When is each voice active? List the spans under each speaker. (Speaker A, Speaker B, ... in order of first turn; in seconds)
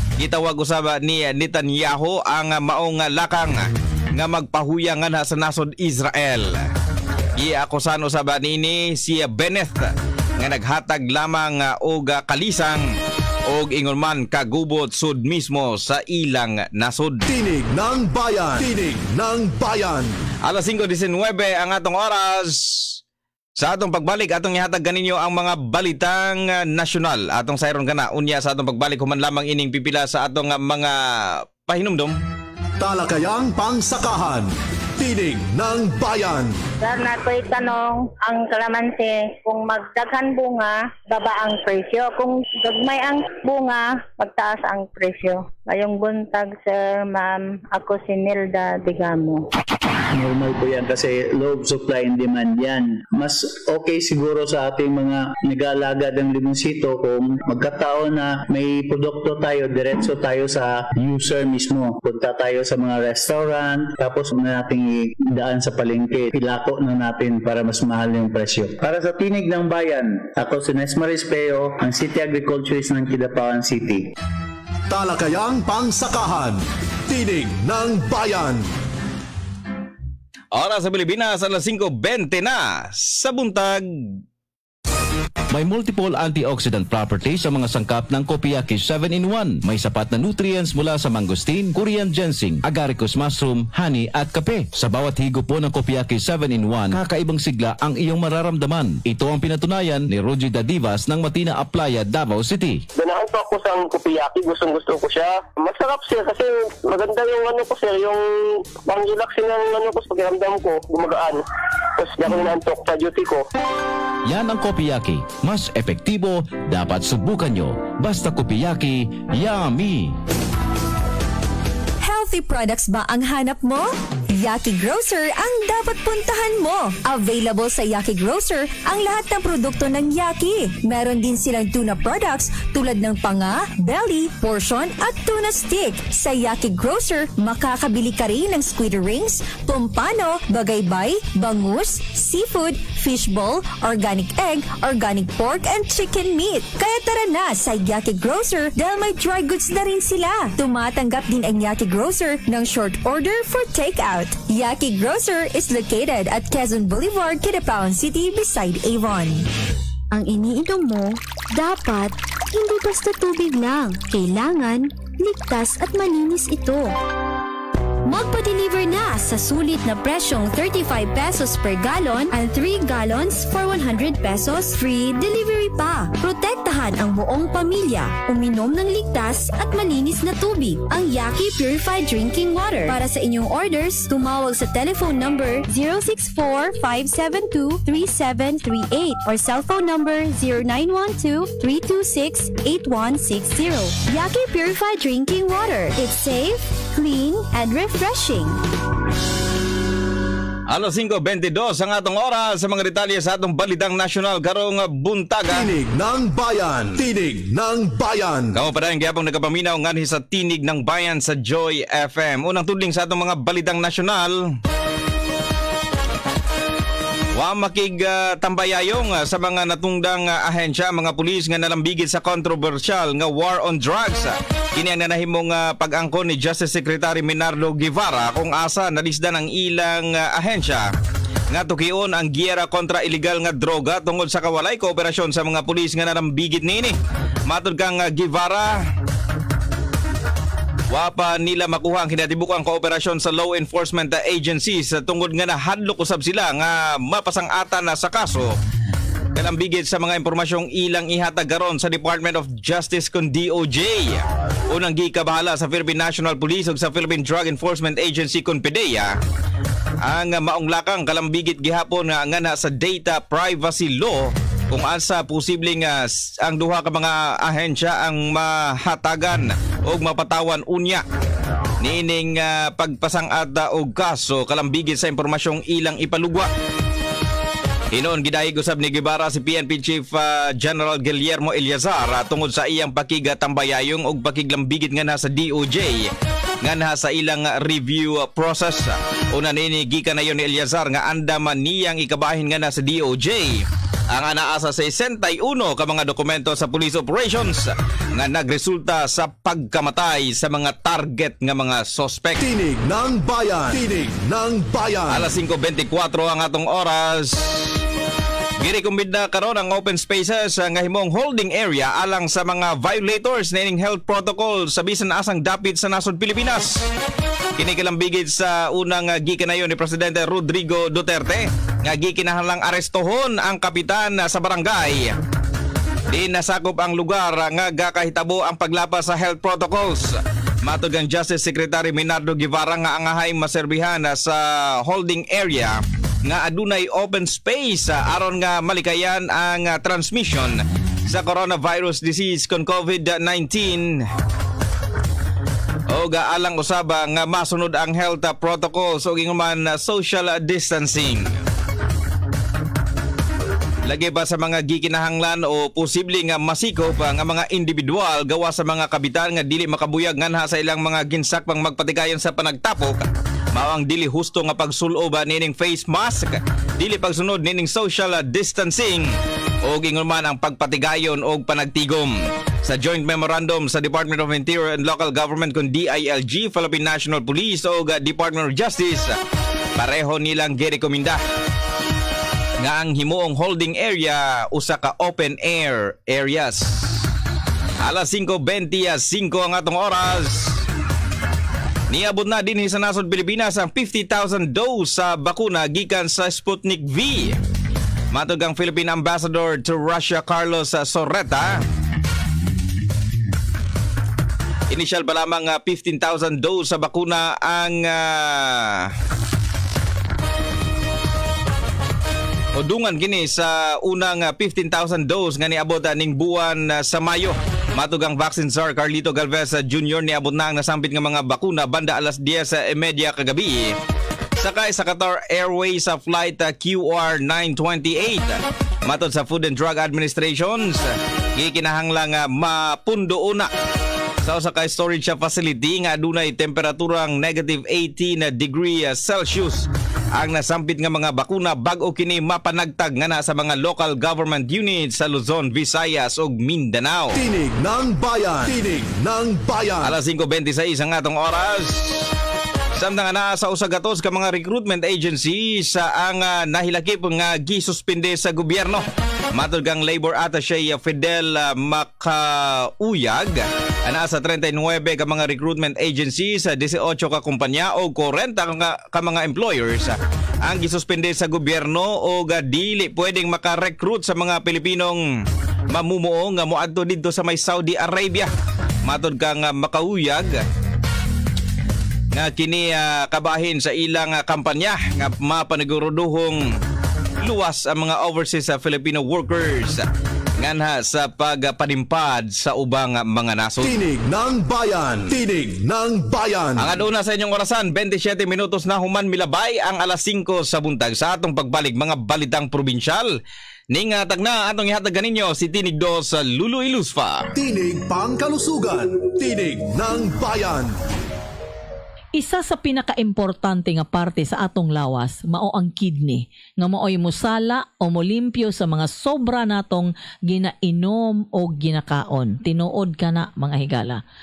Speaker A: 0.2-6.6, 7.4-12.8, 13.5-17.3, 20.4-23.0, 23.6-32.1, 80.5-83.8, 200.7-205.7, 208.5-214.4, 217.3-230.9, 231.5-236.9, 237.5-238.8, 240.9-248.5, 249.3-259.1, 260.0-271.0, 271.8-276.5, 277.9-286.1, 286.6-302.4, 305.1-307.8, 308.6-316.8, 317.6-325.1, 326.1-344.0, 345.9-351.3, 353.9-369.1, 369.6-379.1, 379.8-381.2, 382.6-387.0, 387.8-390.6, 391.9-397.4, 398.1-401.6, 404.7-408.9, 412.5-423.7, 424.4-433.5, 434.2-447.2, 449.8-451.9, 452.8-475.0, 475.7-478.3, 478.9-480.4, 482.1-486.4, 487.2-489.9, 490.4-493.7, 496.6-503.1, 503.7-507.3
Speaker B: 17.3-20.1, 32.8-36.6, 74.9-78.6, 205.5-208.5, 302.4-305.3, 447.1-449.9, 493.6-496.7, 507.4-510.7
Speaker C: 36.8-49.5
Speaker D: 50.1-74.1
Speaker E: 85.5-102.8, 114.2-120.1
Speaker F: 102.9-111.4, 112.0-113.4
Speaker G: 122.0-159.5
Speaker H: 160.1-166.9, 168.1-198.6
Speaker I: 512.1-524.0